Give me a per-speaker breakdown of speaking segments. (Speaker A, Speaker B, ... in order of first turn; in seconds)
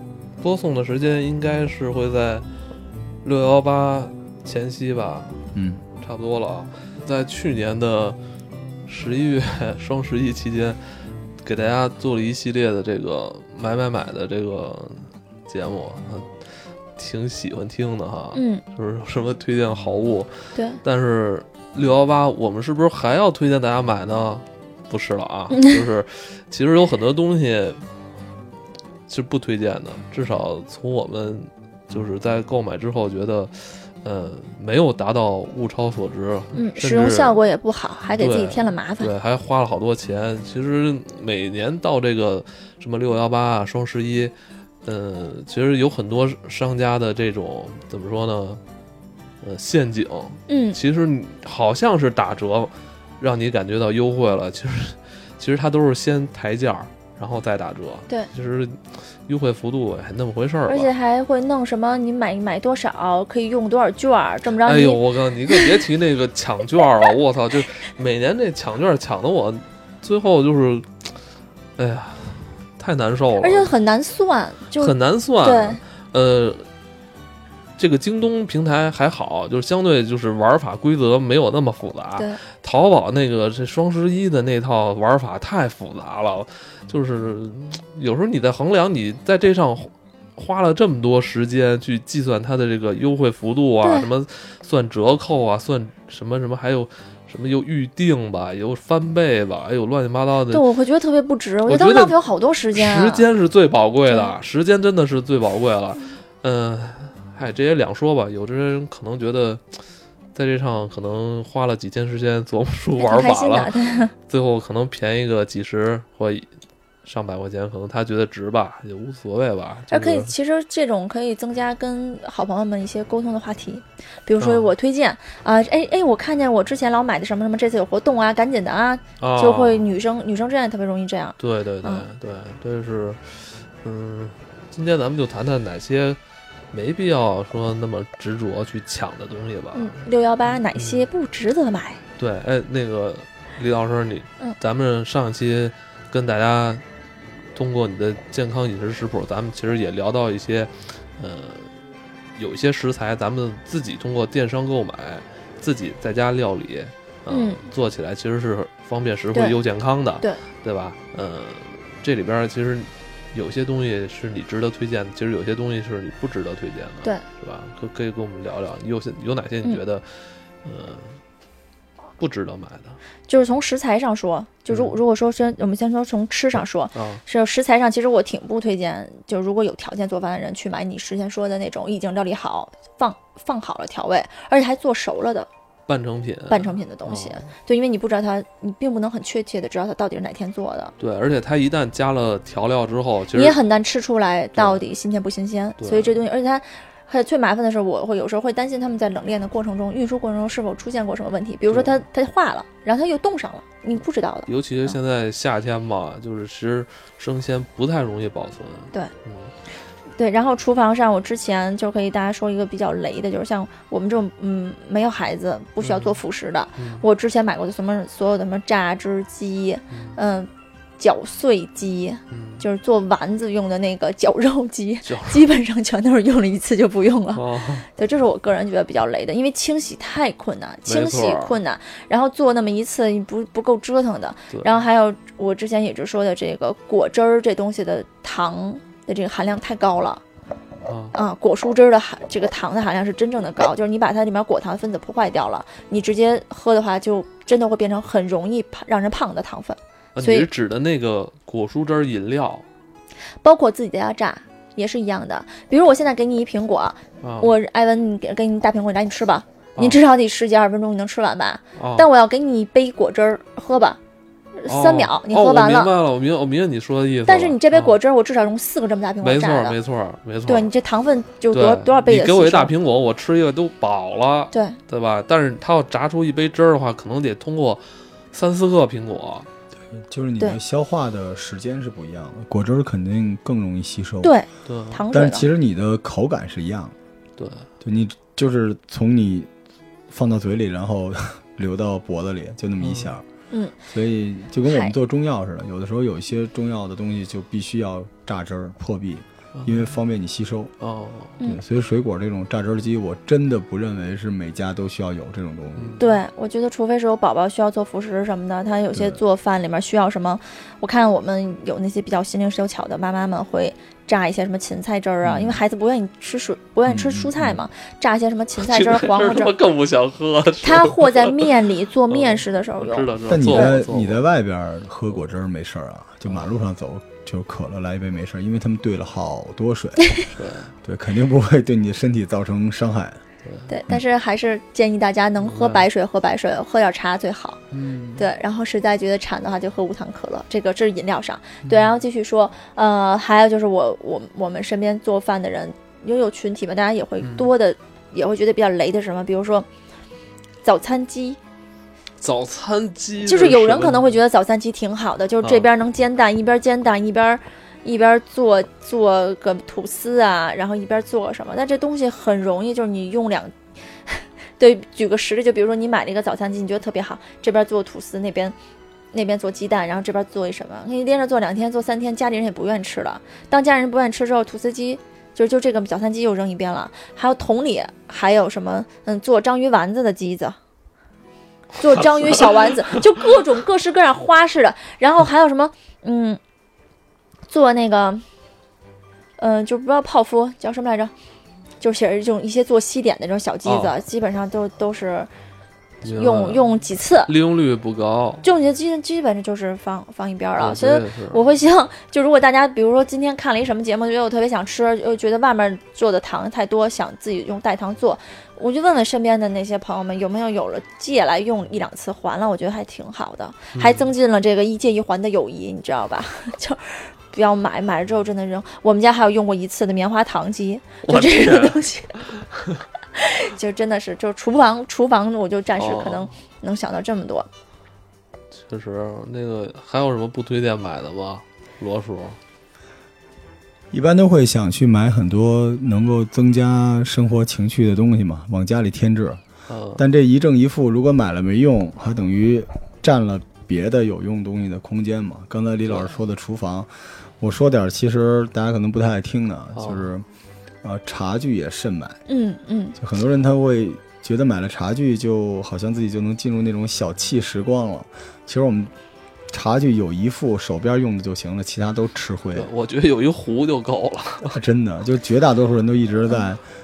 Speaker A: 0.4-2.5, 3.2-5.4, 6.0-8.2, 8.9-10.8, 11.4-16.4, 17.0-27.8, 29.1-37.4, 38.2-44.3, 44.8-48.6, 49.4-60.9, 64.6-71.0, 71.8-73.7, 74.8-76.7, 77.8-100.7, 101.7-102.2, 102.7-109.8, 110.3-116.5, 117.0-120.3, 124.4-124.7, 129.2-129.8, 131.4-136.2, 136.7-141.1, 142.2-146.8, 147.5-170.0, 170.6-171.2, 172.2-173.0, 174.7-175.0, 176.9-177.2, 185.9-187.5, 191.0-193.6, 194.6-194.8, 195.8-196.2, 201.7-202.0, 204.5-209.5, 215.8-216.2, 216.8-217.0, 219.9-220.2, 222.3-222.6, 225.1-225.4, 227.3-227.9, 230.8-231.6, 240.8-241.1, 250.1-252.6, 257.2-257.5, 261.7-262.1, 264.7-268.0, 269.2-270.7, 271.5-279.5, 284.6-285.0, 287.4-287.7, 292.8-293.1, 299.5-299.9, 300.8-301.4, 305.8-306.2, 318.6-321.5, 322.1-324.2, 330.3-330.7, 333.4-333.7, 335.4-335.9, 337.7-338.3, 341.6-342.0, 347.2-347.5, 352.2-354.1, 355.4-355.7, 381.9-382.9, 393.6-393.9, 396.0-396.7, 397.2-398.4, 400.6-401.4, 413.7-414.1, 421.0-422.8, 425.8-426.3, 428.5-432.4, 439.7-440.0, 445.9-446.1, 449.8-450.1, 462.5-464.6
Speaker B: 5.5-5.8, 279.9-284.3, 285.1-286.9, 287.8-289.5, 290.1-293.2, 293.9-300.7, 301.4-306.0, 308.9-309.2, 316.9-317.6, 323.3-330.2, 330.8-333.2, 433.9-439.4, 440.0-450.2, 450.8-452.2, 453.0-458.9, 459.5-462.7, 464.5-466.6
Speaker C: 18.3-18.6, 20.5-20.8, 25.5-25.8, 36.5-39.1, 50.5-50.8, 60.7-65.0, 73.4-75.8, 93.8-94.1, 100.5-103.2, 113.0-114.1, 119.9-132.1, 139.7-142.0, 157.3-157.6, 173.3-185.5, 186.5-190.9, 193.3-204.9, 210.2-240.2, 241.1-250.5, 253.4-264.0, 264.6-265.9, 267.2-269.8, 270.5-272.7, 274.5-274.8, 284.2-285.5, 293.5-293.8, 294.6-294.9, 306.0-319.5, 320.6-323.7, 333.7-337.6, 338.2-349.7, 350.6-351.4, 353.2-363.5, 364.1-368.5, 369.1-380.6, 381.8-386.4, 387.5-388.2, 389.4-391.1, 391.8-395.3, 396.1-397.3, 398.4-422.2, 423.1-427.5, 452.3-453.0